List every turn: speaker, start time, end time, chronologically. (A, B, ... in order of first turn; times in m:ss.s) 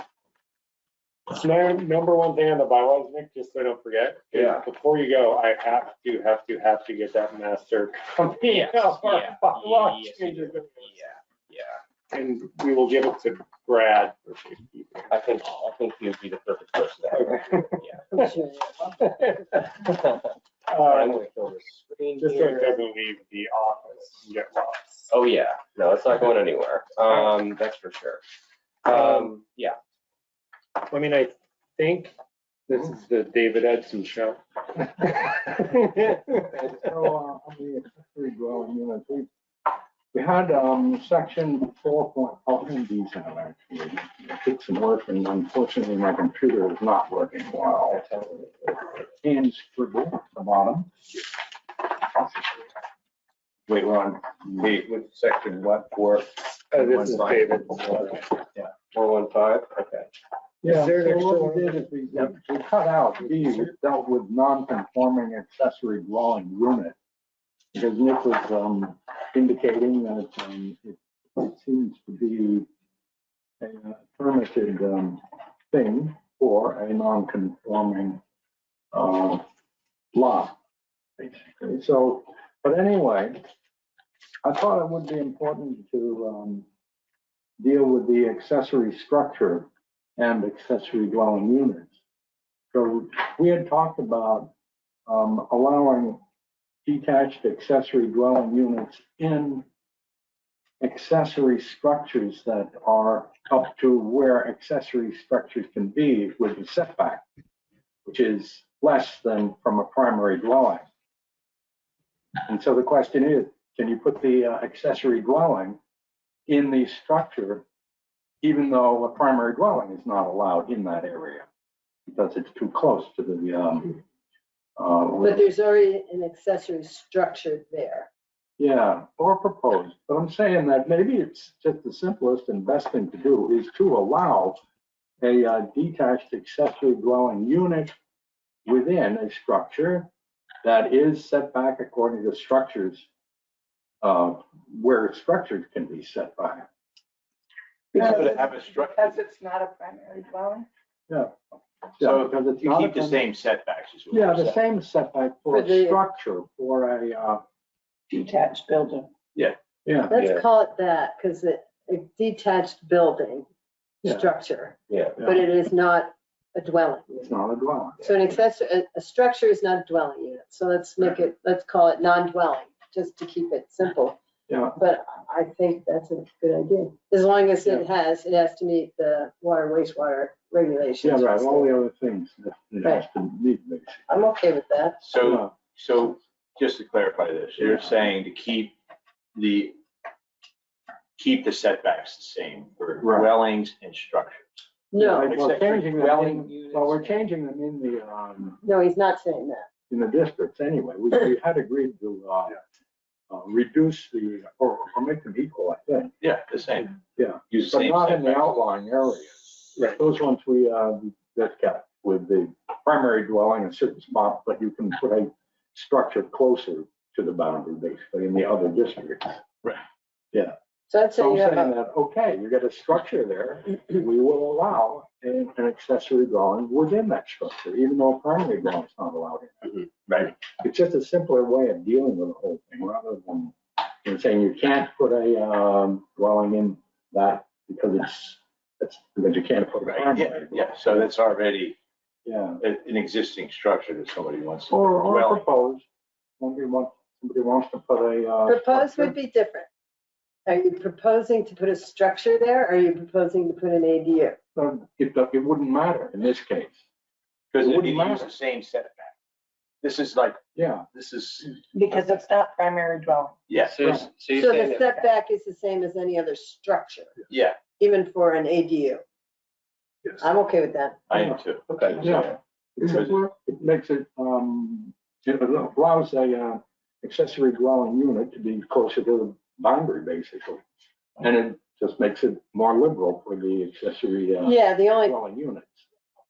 0:01.3-0:11.0 A
0:04.3-0:04.6 B
0:08.4-0:11.8 B
0:12.1-0:15.1 A
0:15.1-0:18.0 B
0:17.1-0:17.8 A
0:18.1-0:19.0 C
0:19.2-0:19.6 A
0:19.8-0:22.8 B
0:20.7-0:21.2 A
0:22.2-0:25.1 A
0:25.1-0:28.2 B
0:28.8-0:29.8 B
0:28.9-0:29.3 A
0:30.8-0:32.2 A
0:32.7-0:36.1 A
0:36.5-0:39.3 D
0:40.1-0:48.1 D
0:47.9-0:48.9 B
0:49.2-0:50.9 D
0:53.7-0:54.7 D
0:54.6-0:56.1 B
0:55.0-0:56.0 E
0:56.7-0:58.3 A
0:57.0-1:00.1 B
1:00.6-1:07.0 D
1:00.6-1:01.8 A
1:07.7-1:12.7 D
1:13.6-1:18.2 D
1:18.9-1:19.4 D
1:20.1-1:20.6 D
1:21.2-1:23.4 D
1:24.4-1:26.7 D
1:27.6-1:32.0 D
1:32.7-1:34.5 D
1:35.1-1:36.2 D
1:36.8-1:39.6 D
1:40.8-1:47.2 D
1:48.0-1:50.8 D
1:52.4-1:55.8 D
1:56.5-1:57.6 D
1:58.4-2:01.5 D
2:02.1-2:04.0 D
2:04.8-2:05.5 D
2:05.2-2:08.1 C
2:08.6-2:14.6 D
2:15.2-2:17.9 D
2:18.6-2:20.1 D
2:20.6-2:23.1 D
2:24.0-2:26.7 D
2:27.9-2:30.7 F
2:28.0-2:29.2 E
2:31.1-2:33.2 D
2:32.0-2:34.6 E
2:34.1-2:37.4 D
2:35.5-2:36.0 C
2:38.1-2:39.1 F
2:39.8-2:40.1 D
2:40.1-2:43.5 C
2:40.1-2:40.4 B
2:44.0-2:47.3 C
2:44.0-2:44.3 D
2:44.9-2:45.2 B
2:45.2-2:45.4 D
2:47.2-2:48.3 D
2:48.0-2:54.2 C
2:54.5-2:54.8 D
2:54.8-3:01.7 C
3:01.0-3:04.1 D
3:04.1-3:05.0 C
3:05.0-3:08.8 E
3:05.2-3:05.5 D
3:07.6-3:07.9 D
3:09.4-3:09.8 E
3:11.2-3:14.5 E
3:13.0-3:13.3 D
3:14.9-3:15.3 C
3:15.0-3:18.6 D
3:15.2-3:16.8 E
3:18.6-3:19.7 C
3:19.9-3:22.6 D
3:23.3-3:26.2 D
3:26.2-3:27.0 E
3:27.2-3:39.4 D
3:27.5-3:28.5 E
3:40.9-3:41.7 C
3:41.2-4:01.1 D
3:59.9-4:01.8 E
4:02.2-4:02.6 D
4:02.6-4:05.4 E
4:04.7-4:05.8 D
4:06.4-4:09.1 D
4:08.5-4:09.7 C
4:10.5-4:14.4 C
4:14.6-4:16.8 D
4:17.5-4:19.2 E
4:17.6-4:18.3 D
4:19.8-4:20.4 E
4:20.6-4:20.9 D
4:20.9-4:21.6 E
4:21.7-4:23.4 F
4:23.5-4:23.8 E
4:23.7-4:24.8 B
4:23.8-4:24.1 D
4:24.3-4:27.1 C
4:27.3-4:27.6 E
4:27.8-4:29.0 C
4:30.2-4:31.0 C
4:31.1-4:32.3 E
4:31.7-4:32.2 B
4:32.0-4:40.6 D
4:32.8-4:33.2 E
4:41.2-4:45.8 D
4:44.4-4:45.2 C